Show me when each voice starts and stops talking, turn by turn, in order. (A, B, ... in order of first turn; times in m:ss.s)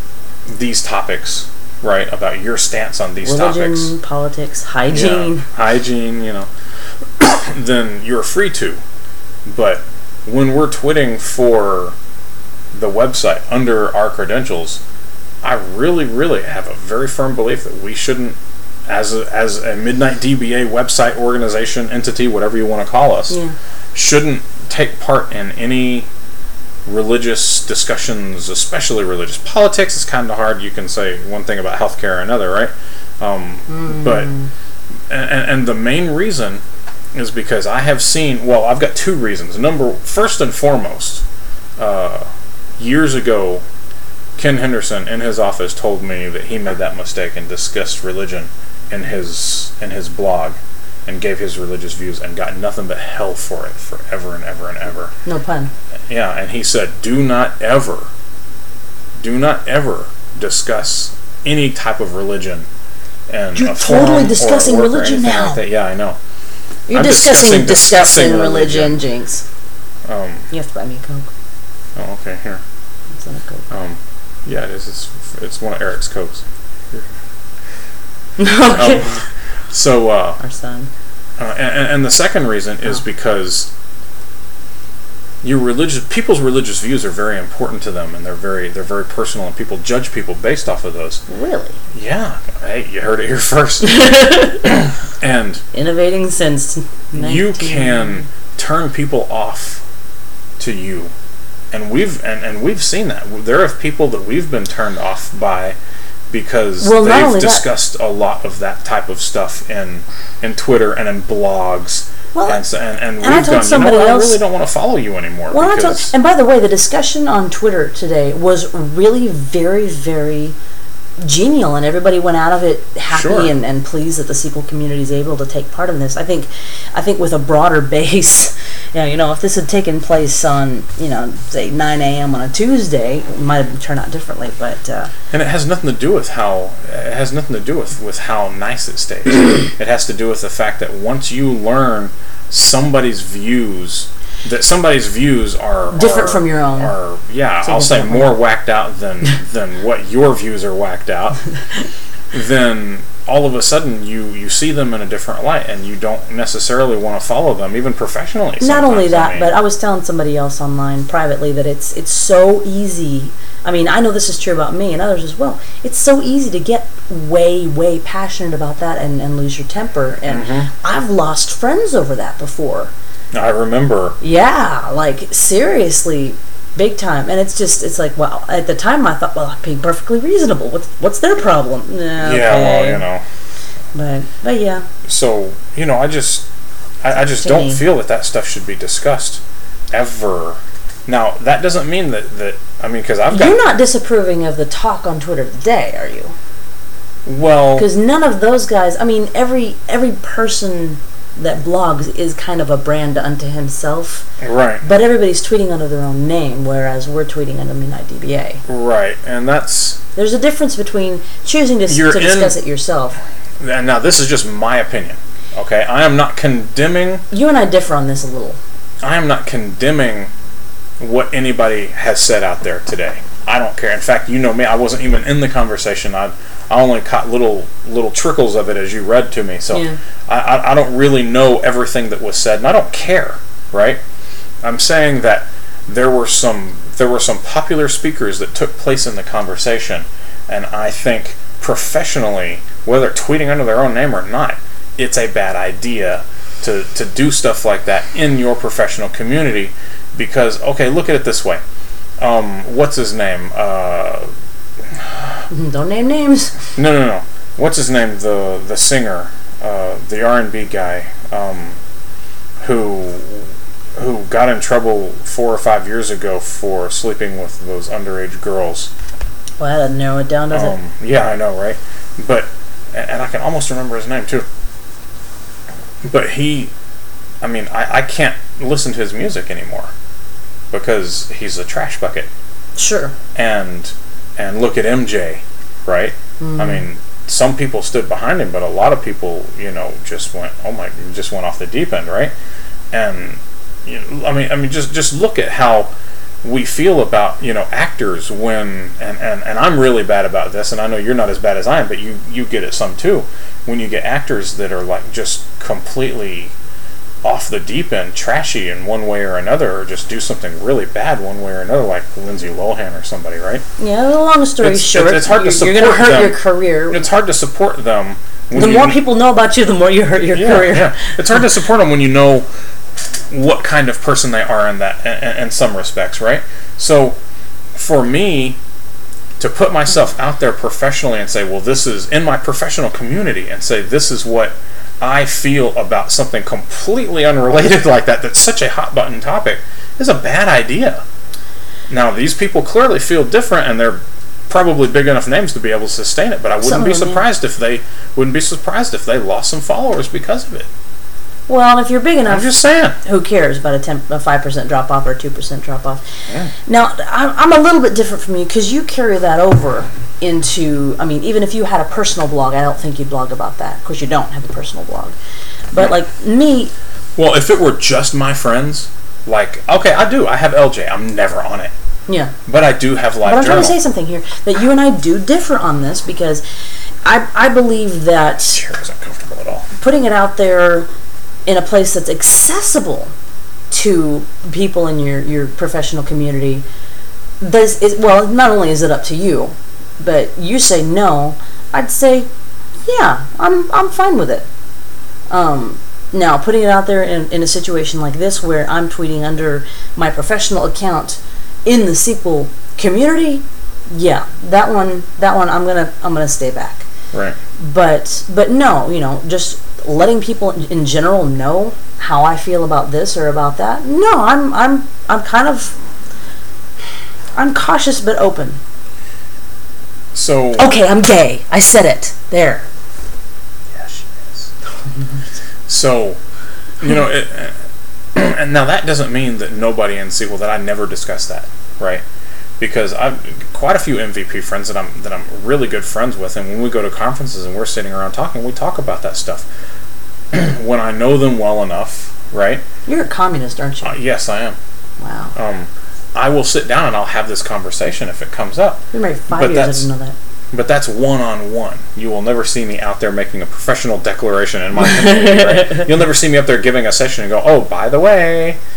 0:00.5-0:03.9 A
0:03.2-0:05.5 B
0:04.9-0:06.5 A
0:07.2-0:08.8 A
0:09.5-0:12.0 A
0:12.7-0:14.8 A
0:15.4-0:18.4 A
0:18.9-0:23.4 A
0:23.3-0:23.6 B
0:24.0-0:26.1 A
0:26.9-0:34.3 A
0:33.7-0:34.5 B
0:35.1-0:36.6 A
0:37.1-0:41.2 A
0:41.8-0:43.6 A
0:44.4-0:55.1 A
0:55.3-0:55.7 B
0:56.1-0:58.1 A
0:59.2-1:02.7 A
1:03.3-1:06.2 A
1:03.6-1:05.6 B
1:06.9-1:09.4 B
1:06.9-1:09.0 A
1:10.1-1:10.5 A
1:10.5-1:11.3 B
1:12.0-1:12.6 A
1:13.2-1:13.7 B
1:13.7-1:17.1 A
1:18.4-1:19.2 B
1:18.7-1:20.4 A
1:20.4-1:20.9 B
1:21.4-1:23.7 A
1:25.4-1:31.2 A
1:31.3-1:31.8 B
1:31.9-1:35.6 A
1:33.8-1:34.7 B
1:35.7-1:38.2 B
1:37.1-1:39.8 A
1:40.6-1:41.1 A
1:41.7-1:45.8 A
1:46.3-1:56.1 A
1:46.8-1:47.7 B
1:52.3-1:52.6 B
1:53.2-1:54.4 B
1:55.5-2:00.6 B
2:01.2-2:15.1 B
2:03.1-2:03.5 A
2:15.3-2:31.4 A
2:25.9-2:27.0 B
2:27.6-2:28.4 B
2:32.3-2:39.5 A
2:38.6-2:52.9 B
2:50.3-2:50.7 A
2:53.3-2:54.2 A
2:54.2-3:03.0 B
3:02.2-3:03.2 A
3:03.9-3:04.8 B
3:05.0-3:06.5 A
3:07.0-3:13.6 A
3:07.4-3:07.8 B
3:13.3-3:16.4 B
3:17.2-3:17.9 A
3:17.8-3:24.3 B
3:24.4-3:24.8 A
3:24.8-3:28.6 B
3:28.7-3:30.0 A
3:30.2-3:33.2 B
3:31.9-3:32.6 A
3:33.6-3:37.2 A
3:37.3-3:38.6 B
3:39.0-3:40.3 A
3:41.0-3:54.0 A
3:49.7-3:50.0 B
3:54.6-4:11.6 A
4:12.2-4:14.3 A
4:15.0-4:15.3 A
4:15.5-4:16.6 B
4:16.8-4:21.8 A
4:22.6-4:28.9 A
4:29.6-4:30.8 B
4:30.5-4:34.5 A
4:36.0-4:36.7 A
4:37.4-4:39.9 A
4:40.7-4:42.3 A
4:42.8-4:43.2 B
4:43.4-4:52.3 A
4:46.4-4:46.8 B
4:52.9-4:55.9 A
4:56.4-5:06.5 A
5:07.2-5:13.6 A
5:13.8-5:17.1 B
5:14.6-5:19.0 A
5:18.5-5:21.1 B
5:20.3-5:22.5 A
5:23.3-5:27.2 A
5:27.7-5:28.6 A
5:29.4-5:41.0 A
5:41.9-5:50.7 A
5:46.6-5:47.2 B
5:51.5-5:56.0 B
5:52.3-5:53.0 A
5:56.7-6:05.2 B
6:05.7-6:06.7 B
6:07.2-6:11.7 A
6:12.1-6:12.3 B
6:12.5-6:13.8 A
6:13.2-6:16.4 B
6:17.0-6:18.6 B
6:18.4-6:19.7 A
6:19.8-6:20.9 B
6:21.5-6:23.1 B
6:23.7-6:26.6 B
6:27.4-6:32.3 B
6:32.8-6:34.5 B
6:35.3-6:46.9 B
6:47.1-6:47.4 A
6:47.6-6:55.7 B
6:57.4-6:58.6 B
7:00.1-7:00.7 A
7:00.6-7:02.7 B
7:03.7-7:04.5 A
7:05.7-7:06.2 A
7:06.8-7:07.6 A
7:08.1-7:12.0 A
7:12.6-7:19.5 A
7:20.3-7:22.6 A
7:22.9-7:24.0 B
7:23.8-7:24.6 A
7:25.0-7:25.3 B
7:25.4-7:29.9 A
7:28.9-7:30.2 B
7:30.5-7:38.6 A
7:34.8-7:35.9 B